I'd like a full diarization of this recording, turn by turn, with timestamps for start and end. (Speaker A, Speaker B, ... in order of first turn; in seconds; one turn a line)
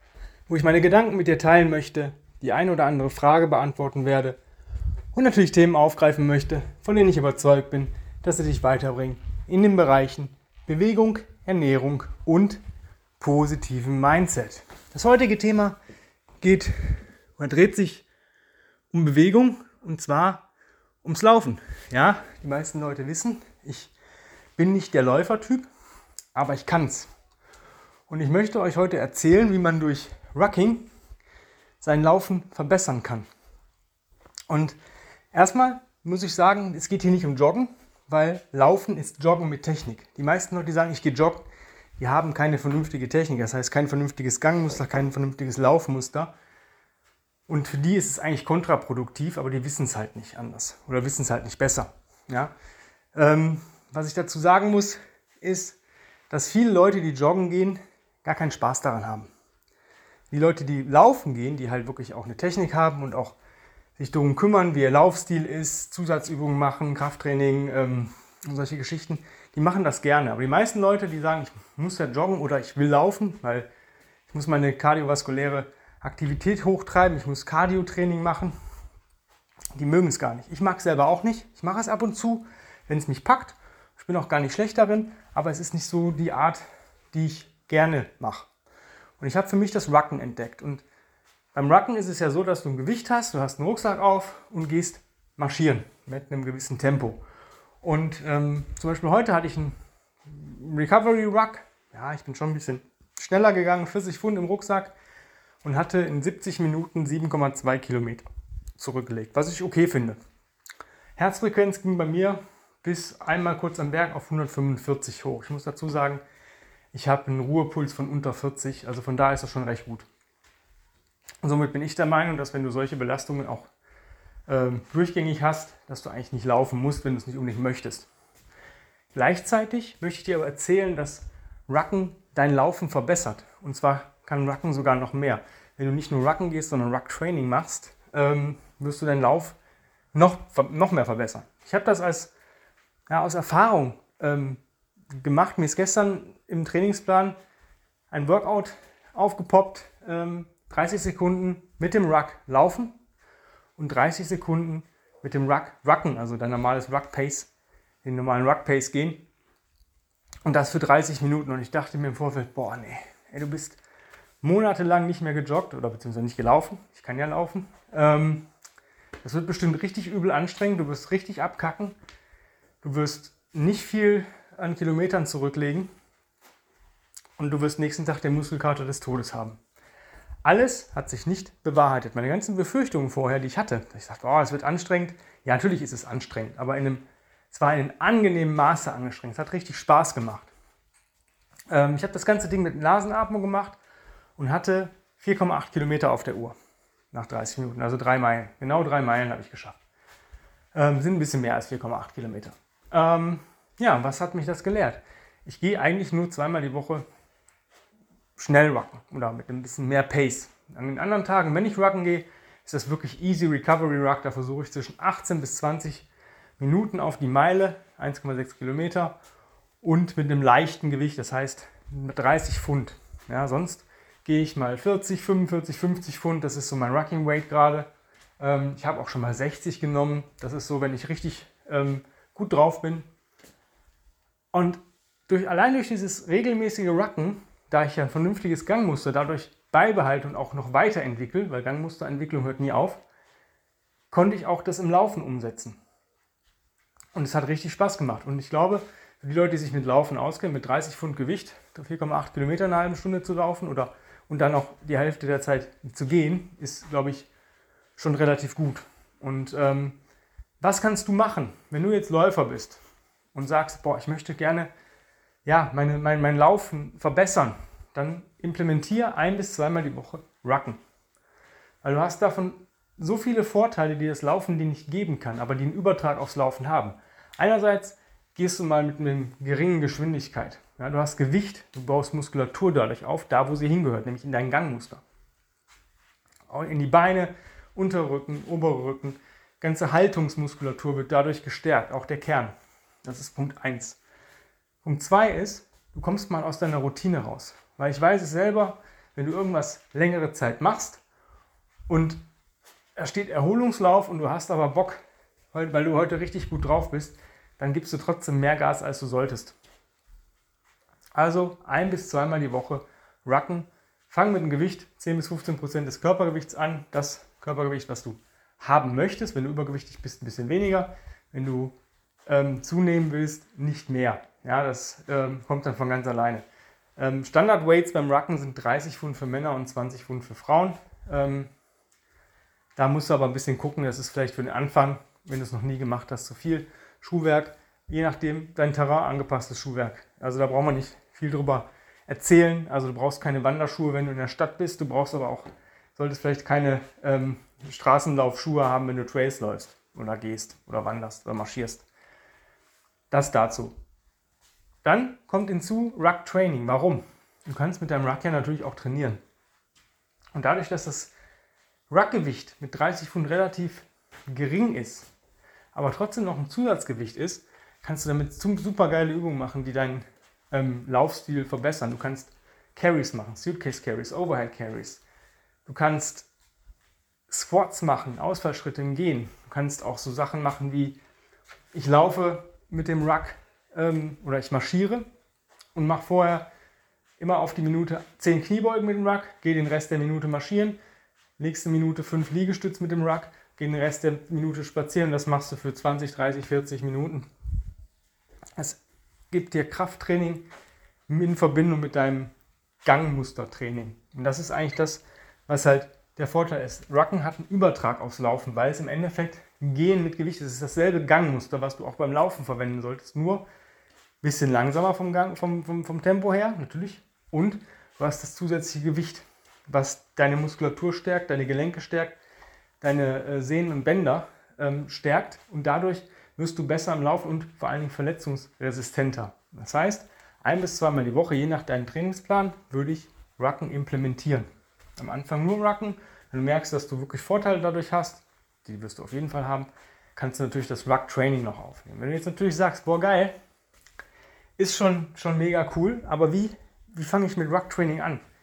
Speaker A: 0.5-4.4
Speaker A: 5.1-12.6
Speaker A: 13.2-15.8
Speaker A: 16.4-18.1
Speaker A: 18.9-20.5
Speaker A: 21.0-23.9
Speaker A: 24.6-25.7
Speaker A: 26.3-27.1
Speaker A: 28.1-30.9
Speaker A: 31.8-33.3
Speaker A: 34.5-34.8
Speaker A: 35.3-41.5
Speaker A: 42.0-46.3
Speaker A: 47.5-52.5
Speaker A: 53.1-55.8
Speaker A: 56.3-59.3
Speaker A: 60.3-63.4
Speaker A: 64.0-73.7
Speaker A: 74.3-78.5
Speaker A: 79.7-88.5
Speaker A: 89.2-90.8
Speaker A: 91.5-97.2
Speaker A: 97.8-104.9
Speaker A: 105.6-108.2
Speaker A: 108.8-110.2
Speaker A: 111.2-116.2
Speaker A: 116.9-120.1
Speaker A: 121.4-123.7
Speaker A: 124.5-128.1
Speaker A: 129.1-139.6
Speaker A: 140.1-142.3
Speaker A: 143.1-144.6
Speaker A: 145.1-147.3
Speaker A: 148.1-152.9
Speaker A: 153.8-157.5
Speaker A: 158.0-159.3
Speaker A: 160.4-163.8
Speaker A: 164.4-168.5
Speaker A: 169.2-171.9
Speaker A: 172.8-175.9
Speaker A: 177.4-179.6
Speaker A: 180.4-190.5
Speaker A: 191.7-193.8
Speaker A: 194.4-196.5
Speaker A: 197.1-199.8
Speaker A: 200.7-207.0
Speaker A: 208.4-216.1
Speaker A: 216.6-219.2
Speaker A: 219.8-227.9
Speaker A: 228.4-233.1
Speaker A: 234.5-243.0
Speaker A: 244.1-245.8
Speaker A: 247.1-257.3
Speaker A: 258.0-260.0
Speaker A: 260.6-262.8
Speaker A: 263.3-264.7
Speaker A: 265.4-270.8
Speaker A: 271.8-285.0
Speaker A: 286.5-292.5
Speaker A: 293.0-294.0
Speaker A: 294.8-301.0
Speaker A: 301.9-302.2
Speaker A: 302.9-305.0
Speaker A: 305.5-309.5
Speaker A: 311.1-321.7
Speaker A: 322.2-326.4
Speaker A: 327.0-331.5
Speaker A: 332.8-351.8
Speaker A: 353.1-353.8
Speaker A: 354.8-359.2
Speaker A: 360.3-361.1
Speaker A: 361.9-365.1
Speaker A: 365.7-375.0
Speaker A: 375.6-376.3
Speaker A: 377.3-381.0
Speaker A: 381.7-385.1
Speaker A: 385.7-386.5
Speaker A: 387.2-390.8
Speaker A: 391.4-397.3
Speaker A: 398.6-400.5
Speaker A: 401.1-402.3
Speaker A: 402.8-413.4
Speaker A: 414.2-422.1
Speaker A: 422.8-443.3
Speaker A: 444.6-448.2